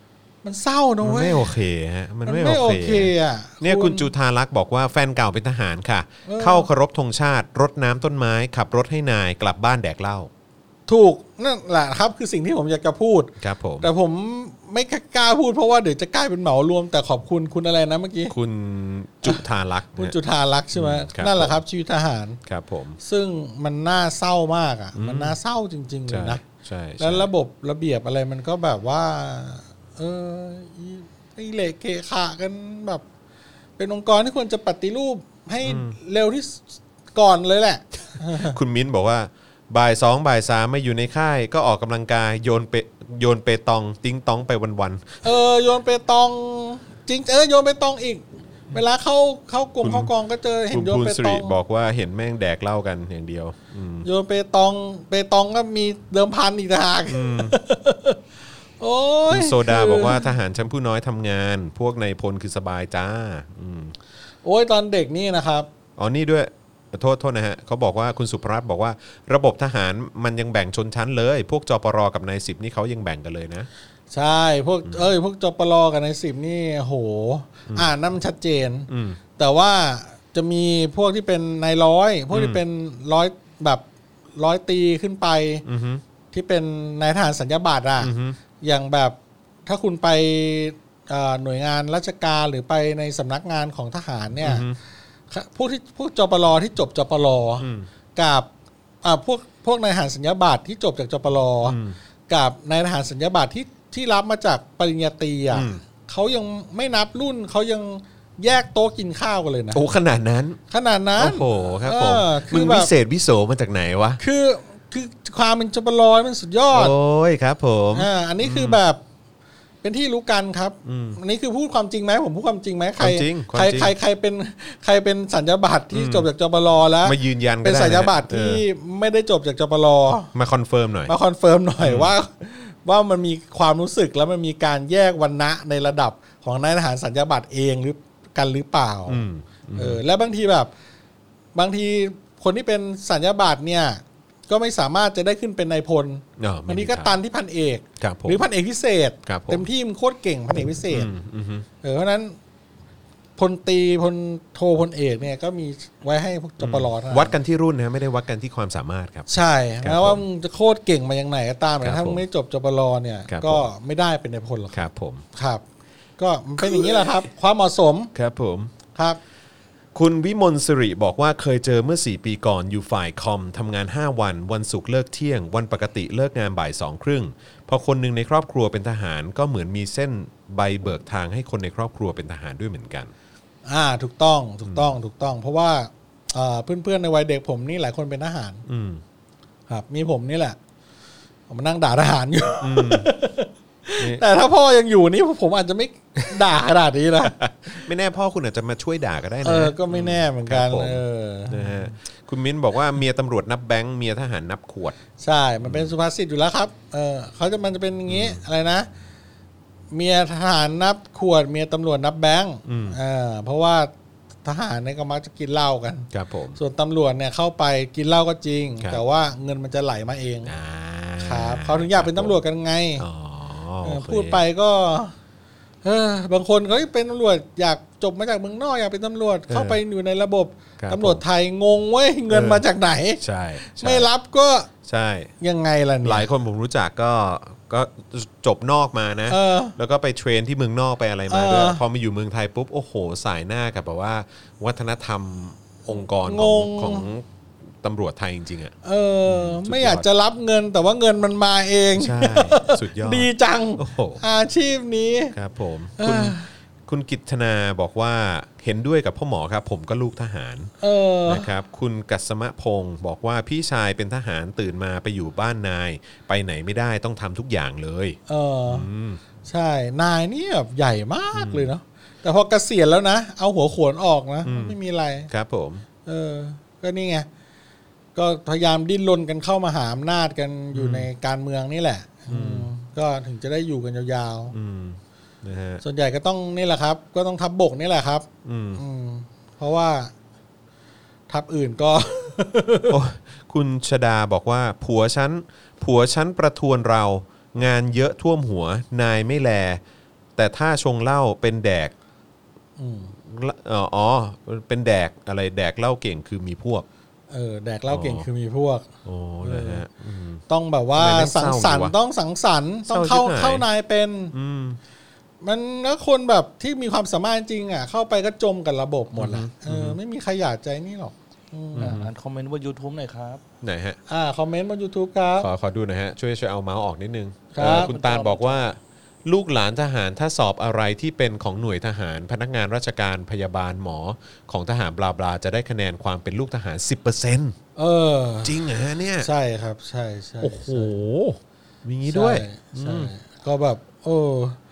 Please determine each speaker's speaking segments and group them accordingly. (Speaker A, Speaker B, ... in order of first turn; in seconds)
Speaker A: 0.4-1.5, 2.2-4.1, 6.2-6.7, 10.9-18.3, 20.0-22.4, 23.0-26.4, 27.0-33.0, 33.8-36.6, 37.1-38.6, 45.2-51.5, 54.0-58.2, 58.8-60.3, 64.4-65.7, 74.1-83.8, 84.3-85.6, 86.3-94.7, 95.3-98.5, 99.0-109.8, 110.7-112.9, 114.2-116.9, 117.9-119.0, 119.8-130.3, 131.1-139.2, 139.7-140.7, 141.5-151.1, 151.8-152.3, 153.4-157.3, 159.3-164.8, 165.3-165.6, 166.2-168.1, 183.7-188.6, 189.7-190.6, 191.5-197.8, 199.4-201.8, 205.2-208.9, 209.9-213.9, 214.4-220.5, 221.2-223.0, 223.8-225.1, 225.8-234.7, 235.4-236.3, 239.3-239.8, 241.3-241.8, 246.2-247.1, 248.8-255.3, 256.0-256.5, 260.8-261.5, 268.3-268.9, 269.4-275.3, 276.0-277.3, 278.1-284.5, 285.8-290.1, 291.3-293.0, 302.8-303.1, 307.3-308.9, 309.4-309.8, 310.5-314.3, 315.4-322.0, 324.1-325.5, 327.5-327.9, 337.8-338.6, 339.2-340.9, 342.1-344.6
Speaker B: 1.0-10.3, 13.4-13.9, 18.3-20.1, 20.7-21.6, 22.4-23.0, 24.9-25.4, 26.1-27.3, 35.6-35.9, 38.3-45.2, 49.8-50.1, 50.7-54.1, 57.1-57.6, 59.3-64.0, 66.0-73.7, 78.9-79.2, 82.3-82.6, 85.6-86.0, 88.0-88.4, 94.4-94.8, 97.6-97.9, 101.7-102.0, 105.5-105.8, 109.7-110.6, 111.2-114.2, 116.7-118.8, 120.8-121.2, 123.0-123.9, 125.9-126.3, 127.0-128.6, 130.3-131.1, 131.8-132.1, 139.1-140.0, 146.4-147.2, 148.0-148.4, 149.2-149.7, 150.8-151.7, 156.6-159.3, 159.8-160.2, 161.8-162.2, 163.3-163.6, 164.7-165.2, 166.6-167.2, 168.1-168.7, 169.9-183.1, 188.7-189.0, 192.6-193.1, 197.2-205.0, 205.6-205.9, 208.1-208.4, 212.6-213.0, 216.1-216.6, 220.4-222.4, 223.0-224.4, 229.5-229.8, 230.8-231.2, 232.3-232.7, 233.2-234.1, 234.8-235.3, 236.0-247.2, 247.8-248.7, 249.3-250.1, 251.9-254.2, 255.3-260.7, 261.2-269.2, 271.3-271.7, 274.4-274.8, 275.3-275.9, 280.7-281.1, 282.3-282.7, 284.5-285.8, 288.4-288.8, 292.9-299.8, 300.4-301.9, 303.2-306.9, 307.9-308.2, 309.0-310.4, 310.9-311.9, 312.9-313.6, 314.3-314.8, 319.1-320.0, 321.8-322.1, 323.6-324.0, 325.4-337.6, 338.4-339.3, 340.4-343.1
Speaker C: 321.8-323.4, 327.6-328.6